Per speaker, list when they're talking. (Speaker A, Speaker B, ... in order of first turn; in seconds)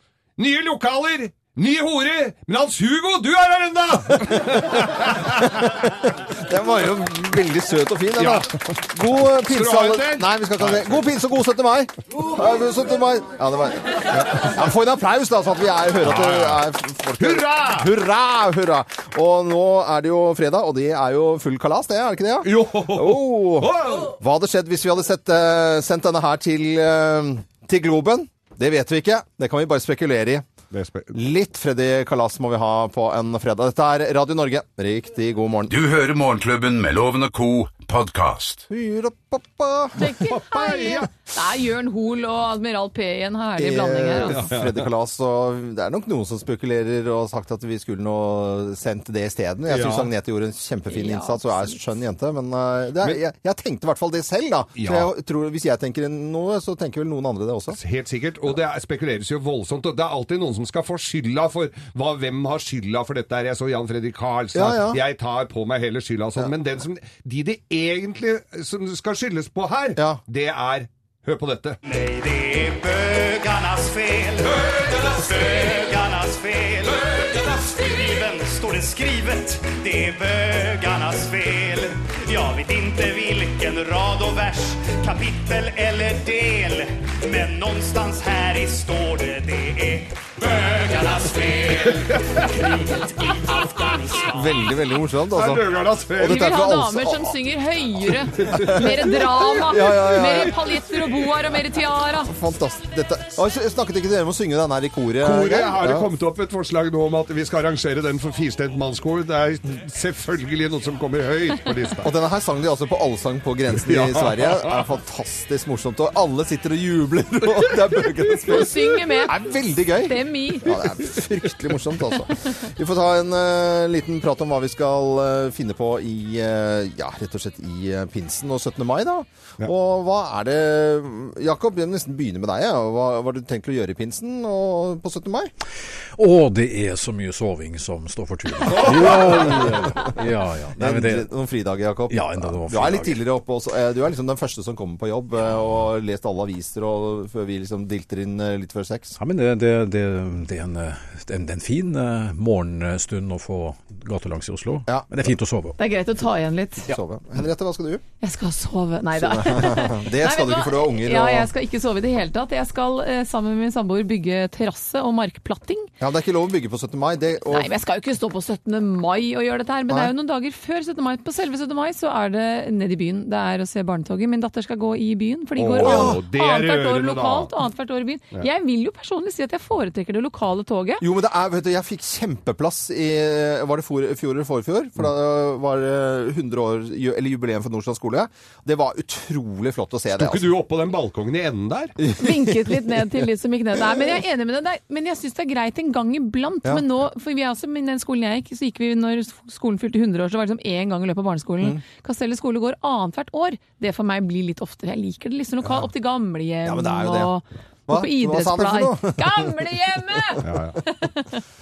Speaker A: 0.4-5.7, 8.2-8.5, 9.2-11.1, 14.1-14.5, 16.0-16.6, 17.2-17.9, 22.4-24.1, 30.7-31.1, 40.1-41.1, 44.3-44.9, 49.7-50.1, 54.8-55.1, 57.7-71.8, 95.3-96.5, 98.4-99.3, 105.2-112.1, 113.7-114.8, 117.5-118.6, 138.6-139.7, 175.6-177.5, 190.2-191.9, 210.4-210.8
Speaker B: 5.4-30.4, 31.1-35.7, 38.7-40.2, 43.6-57.8, 64.5-65.0, 70.0-70.2, 94.3-97.4, 98.4-100.6, 102.2-106.1, 112.0-135.5, 138.7-140.1, 140.8-149.1, 154.9-155.3, 156.8-158.0, 159.1-161.5, 166.0-167.7, 175.8-176.2, 181.0-190.5, 192.0-193.2, 193.8-194.1, 206.6-207.3, 207.9-210.4
Speaker C: 35.7-38.7
Speaker D: 40.0-44.4, 50.9-51.8, 96.2-102.3, 118.5-119.4, 120.0-120.7, 155.8-156.9, 158.2-165.9, 167.5-181.0, 192.2-211.4
Speaker E: 71.8-94.3
Speaker F: 136.2-141.3, 142.1-143.2, 149.2-155.8